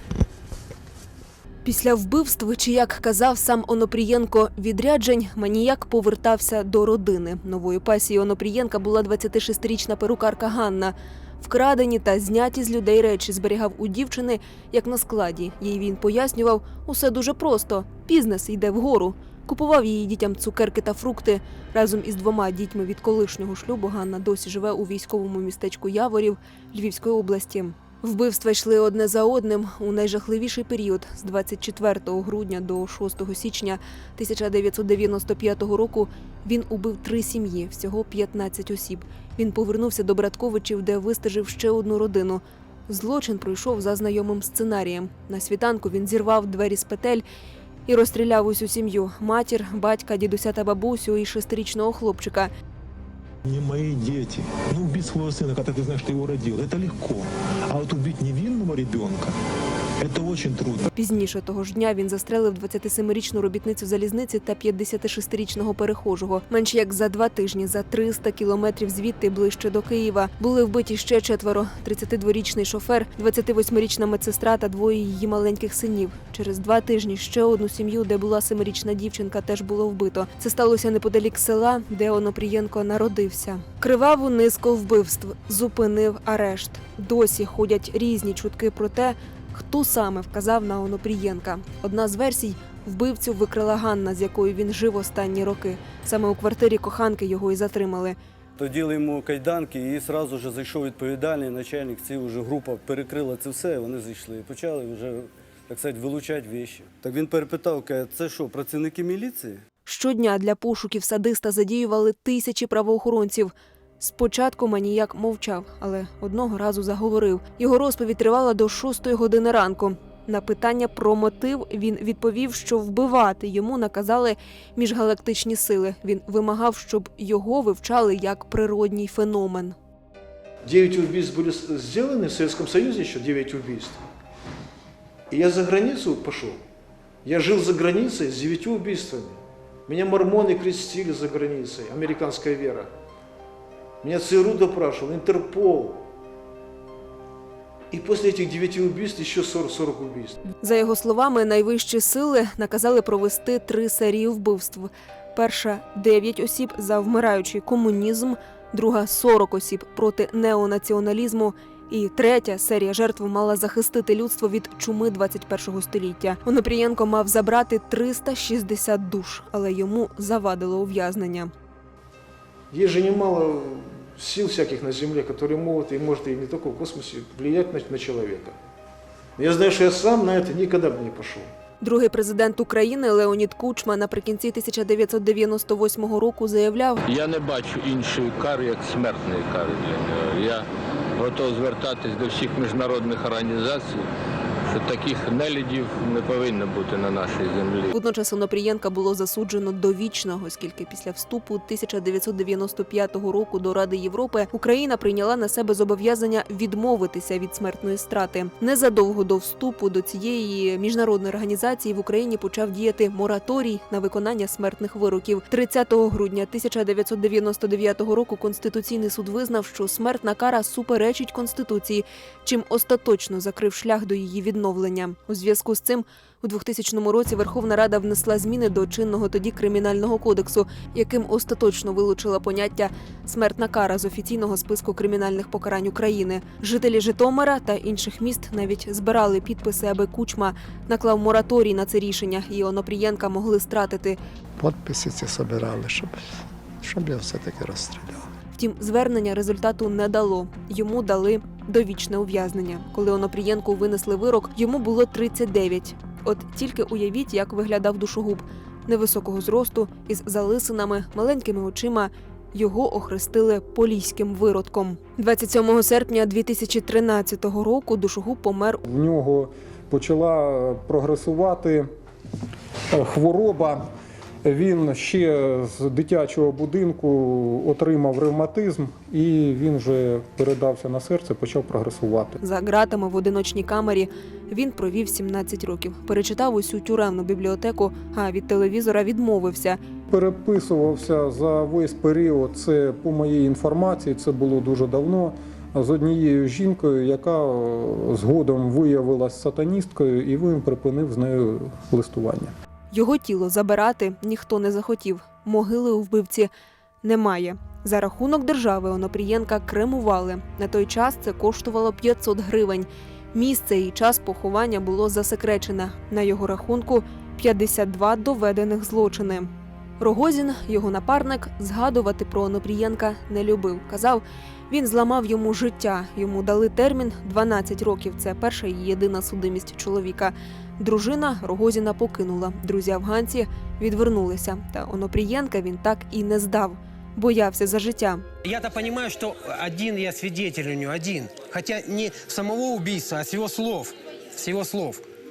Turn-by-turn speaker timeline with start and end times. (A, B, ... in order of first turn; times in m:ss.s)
0:01.6-0:47.2 A
0:47.9-0:52.5 A
0:53.4-0:59.3 B
1:00.0-1:00.9 B
1:01.0-1:38.2 A
1:38.6-1:49.6 C
1:49.8-2:09.8 A
2:10.6-2:14.0 D
2:15.3-2:16.6 D
2:17.2-2:22.9 D
2:24.0-2:26.0 D
2:27.9-2:30.4 D
2:30.6-2:51.5 A
2:52.7-2:58.6 D
2:59.4-3:01.5 D
3:01.8-3:07.0 A
3:07.0-3:10.6 E
3:11.2-3:14.1 E
3:14.7-3:17.9 E
3:17.9-4:04.2 A
4:04.6-4:08.2 F
4:08.6-4:28.8 A
4:28.8-4:31.9 G
4:32.9-4:33.9 G
4:34.4-4:42.4 G
4:42.4-4:49.8 A
4:50.1-5:02.5 G
5:02.9-5:06.5 A
5:07.0-5:19.5 A
5:20.0-5:38.2 A
5:38.4-5:45.0 H